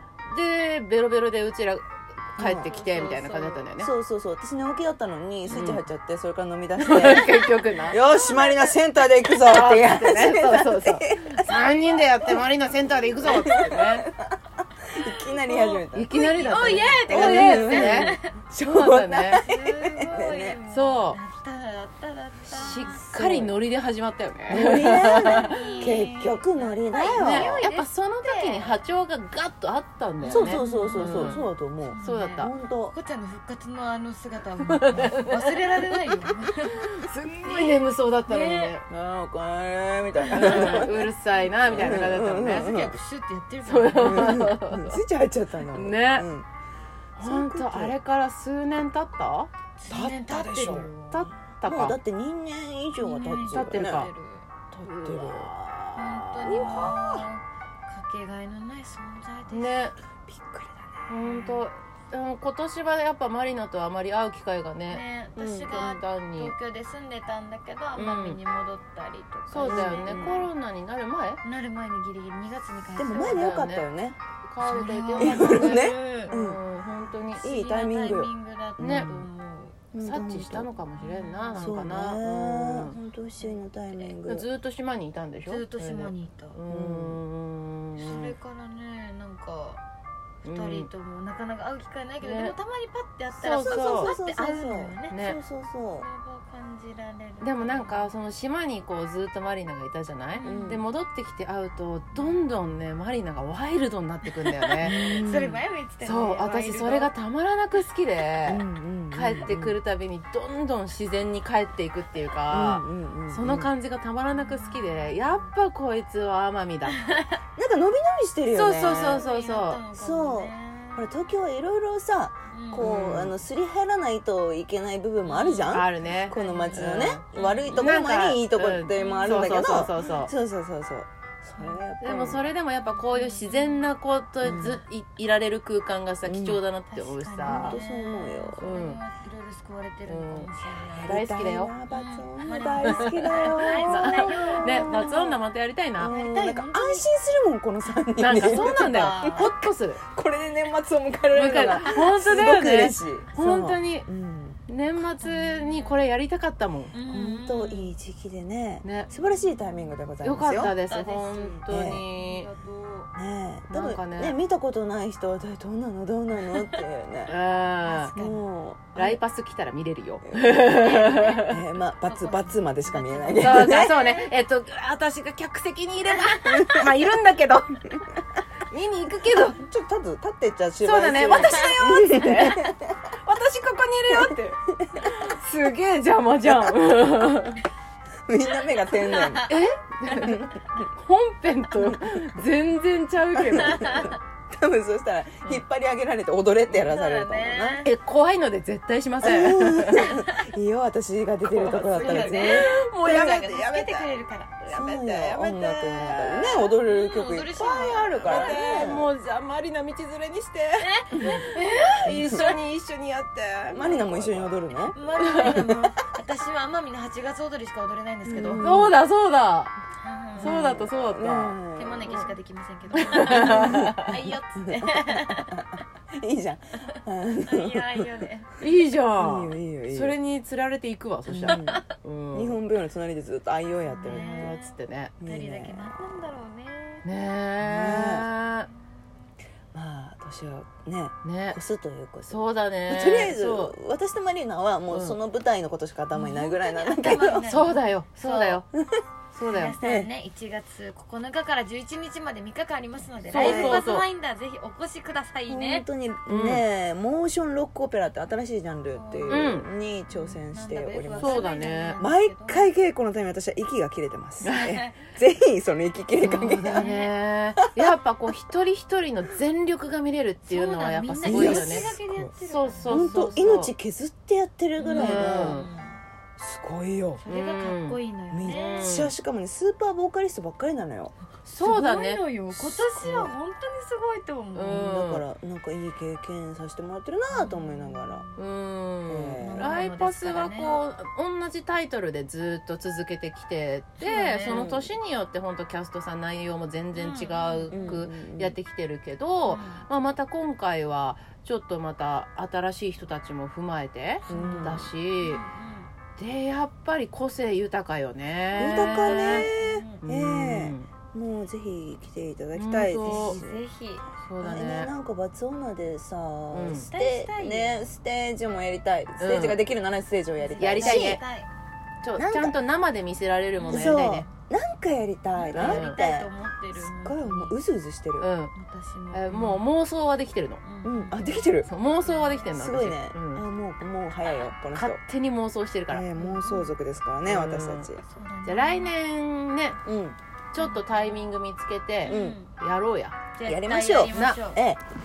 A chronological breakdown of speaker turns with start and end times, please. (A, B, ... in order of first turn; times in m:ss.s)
0:00.3-0:03.9 A
0:02.4-0:02.7 B
0:02.4-0:03.6 C
0:03.8-0:11.7 B
0:05.5-0:05.8 A
0:06.8-0:08.0 A
0:07.7-0:08.8 C
0:09.3-0:14.1 A
0:11.2-0:12.1 C
0:13.2-0:14.4 B
0:14.9-0:20.6 B
0:15.2-0:18.3 C
0:15.9-0:19.4 A
0:19.4-0:23.0 C
0:20.7-0:21.2 A
0:22.4-0:25.8 A
0:22.8-0:23.6 B
0:24.5-0:27.5 B
0:24.8-0:28.8 C
0:27.2-0:31.4 A
0:30.2-0:36.9 C
0:30.3-0:33.0 B
0:32.0-0:32.5 A
0:34.6-0:36.0 A
0:36.6-0:38.8 A
0:37.4-0:38.8 C
0:38.9-0:41.1 B
0:40.2-0:44.4 C
0:40.3-0:42.8 A
0:41.6-0:43.0 B
0:43.6-0:45.0 A
0:44.0-0:46.5 B
0:45.7-0:46.3 A
0:47.2-0:49.5 A
0:47.2-0:48.0 B
0:49.8-0:51.3 C
0:49.9-0:50.9 B
0:51.0-0:52.0 A
0:51.6-0:54.1 B
0:53.0-0:54.5 C
0:53.5-0:54.1 A
0:54.7-0:55.5 B
0:54.8-0:57.0 A
0:56.0-0:59.8 C
0:56.5-0:57.0 B
0:59.5-1:00.0 A
1:00.3-1:01.0 B
1:01.1-1:06.5 A
1:01.2-1:01.7 C
1:04.9-1:10.5 C
1:08.0-1:08.4 A
1:09.5-1:11.4 A
1:09.6-1:10.4 B
1:11.4-1:13.6 C
1:13.0-1:14.2 B
1:13.2-1:13.8 A
1:14.5-1:17.4 A
1:14.6-1:16.4 C
1:15.2-1:16.6 B
1:17.4-1:19.8 C
1:17.4-1:19.3 B
1:18.8-1:19.1 A
1:19.9-1:20.7 B
1:20.0-1:23.0 A
1:21.0-1:21.7 C
1:21.6-1:24.5 B
1:23.4-1:24.1 C
1:24.2-1:28.4 A
1:25.4-1:26.6 C
1:26.7-1:27.2 B
1:28.0-1:29.8 C
1:30.4-1:35.2 C
1:30.4-1:30.9 A
1:32.2-1:32.5 A
1:33.4-1:34.1 A
1:33.6-1:36.0 B
1:35.1-1:35.4 A
1:35.9-1:38.1 C
1:37.4-1:44.9 A
1:40.4-1:40.8 C
1:40.4-1:40.8 B
1:42.1-1:42.4 C
1:44.4-1:47.1 C
1:44.8-1:45.6 B
1:46.0-1:57.1 A
1:48.4-1:49.8 B
1:52.5-1:53.7 B
1:54.3-1:55.5 C
1:57.0-1:57.4 C
1:57.6-1:59.2 B
1:58.5-1:59.8 A
1:58.9-2:01.2 C
1:59.9-2:12.4 B
2:02.5-2:02.9 C
2:02.8-2:03.4 A
2:05.2-2:07.9 C
2:05.7-2:10.3 A
2:08.9-2:10.3 C
2:11.6-2:11.8 C
2:12.0-2:17.8 A
2:12.8-2:13.9 C
2:14.4-2:14.8 B
2:14.4-2:14.8 C
2:16.2-2:16.6 B
2:16.9-2:21.2 C
2:17.4-2:18.7 B
2:18.6-2:19.0 A
2:20.0-2:20.5 A
2:20.9-2:25.3 B
2:21.0-2:21.7 A
2:21.9-2:25.4 C
2:22.9-2:26.1 A
2:26.0-2:34.6 B
2:26.0-2:27.1 C
2:27.9-2:29.5 C
2:28.2-2:30.0 A
2:31.3-2:34.1 A
2:31.8-2:32.6 C
2:34.7-2:36.9 A
2:35.1-2:36.1 C
2:36.9-2:37.9 C
2:37.1-2:40.8 B
2:38.8-2:39.1 A
2:39.1-2:39.9 C
2:40.2-2:42.5 A
2:40.8-2:43.1 C
2:41.7-2:42.0 B
2:43.1-2:47.3 B
2:43.7-2:44.4 A
2:47.3-2:48.1 A
2:47.8-2:48.4 C
2:48.1-2:49.2 B
2:48.9-2:51.6 A
2:50.3-2:53.9 B
2:50.8-2:51.4 C
2:52.0-2:54.4 C
2:53.4-2:58.0 A
2:56.4-2:56.9 B
2:58.7-2:59.6 A
2:59.6-3:02.9 B
3:00.8-3:07.6 A
3:04.1-3:05.1 B
3:06.4-3:07.0 B
3:08.3-3:09.5 B
3:08.8-3:09.6 C
3:09.5-3:14.1 A
3:10.1-3:10.5 B
3:13.4-3:17.9 B
3:13.6-3:14.2 C
3:16.8-3:17.9 C
3:17.8-3:20.1 A
3:19.2-3:23.4 B
3:20.0-3:20.5 C
3:21.4-3:26.7 A
3:21.7-3:24.6 C
3:24.7-3:29.1 B
3:26.8-3:28.8 C
3:28.2-3:34.6 A
3:30.8-3:32.2 C
3:32.0-3:32.5 B
3:33.7-3:35.0 B
3:34.9-3:38.9 C
3:35.2-3:35.9 A
3:38.2-3:38.9 B
3:38.6-3:39.7 A
3:40.0-3:40.8 C
3:40.4-3:42.1 B
3:40.4-3:42.2 A
3:41.7-3:45.6 C
3:42.9-3:44.2 A
3:43.2-3:48.1 B
3:46.8-3:48.5 C
3:48.6-3:52.6 A
3:49.2-3:50.2 B
3:51.3-3:54.5 B
3:51.5-3:51.8 C
3:54.0-3:57.0 C
3:54.1-3:55.1 A
3:55.2-3:56.1 B
3:57.0-3:58.7 A
3:57.6-3:58.3 B
3:59.7-4:07.5 B
4:01.2-4:01.6 A
4:02.3-4:03.7 A
4:04.9-4:05.2 A
4:06.1-4:08.6 C
4:07.1-4:08.7 A
4:09.3-4:09.8 A
4:09.5-4:15.8 C
4:09.8-4:10.1 B
4:13.3-4:14.0 A
4:13.3-4:13.8 B
4:15.5-4:21.4 B
4:16.2-4:16.6 A
4:18.9-4:19.5 C
4:19.3-4:19.7 A
4:20.1-4:22.7 C
4:21.2-4:22.0 A
4:22.0-4:26.9 B
4:24.4-4:24.8 A
4:24.5-4:25.0 C
4:26.2-4:31.9 A
4:26.7-4:27.1 C
4:30.4-4:33.1 C
4:31.2-4:32.3 B
4:32.4-4:33.7 A
4:32.9-4:35.6 B
4:34.8-4:36.0 C
4:34.9-4:35.7 A
4:36.4-4:37.2 B
4:37.2-4:38.9 C
4:37.3-4:39.1 A
4:38.3-4:41.1 B
4:41.4-4:42.2 A
4:41.6-4:44.9 C
4:42.5-4:43.3 B
4:44.5-4:45.2 A
4:44.7-4:48.2 B
4:47.3-4:48.4 C
4:48.4-5:05.4 A
4:49.1-4:49.8 B
4:49.4-4:50.8 C
4:54.0-4:54.7 C
4:54.4-4:54.9 B
4:56.9-4:58.0 C
4:57.7-4:58.6 B
4:59.4-4:59.8 C
5:04.3-5:05.9 C
5:04.3-5:04.9 B
5:06.2-5:09.4 A
5:08.6-5:13.6 B
5:08.9-5:10.0 C
5:10.0-5:10.9 A
5:12.5-5:13.4 A
5:13.0-5:14.0 C
5:14.2-5:14.9 A
5:14.4-5:21.2 B
5:16.5-5:16.9 A
5:16.7-5:17.8 C
5:19.2-5:19.6 A
5:20.4-5:21.5 C
5:20.6-5:21.2 A
5:22.0-5:24.3 A
5:22.2-5:22.6 B
5:23.6-5:24.0 C
5:23.7-5:28.3 B
5:25.3-5:27.6 C
5:25.5-5:26.0 A
5:28.2-5:28.5 A
5:28.5-5:29.6 C
5:29.1-5:30.6 A
5:30.6-5:32.5 C
5:30.8-5:31.7 B
5:31.6-5:33.4 A
5:32.5-5:35.0 B
5:34.7-5:36.0 A
5:35.9-5:38.0 B
5:36.2-5:36.7 C
5:37.2-5:37.9 A
5:38.0-5:38.9 C
5:38.4-5:39.8 A
5:39.8-5:40.2 B
5:40.5-5:43.2 A
5:40.6-5:41.3 C
5:42.0-5:42.4 B
5:42.0-5:42.5 C
5:43.3-5:44.6 C
5:43.4-5:44.8 B
5:44.1-5:44.4 A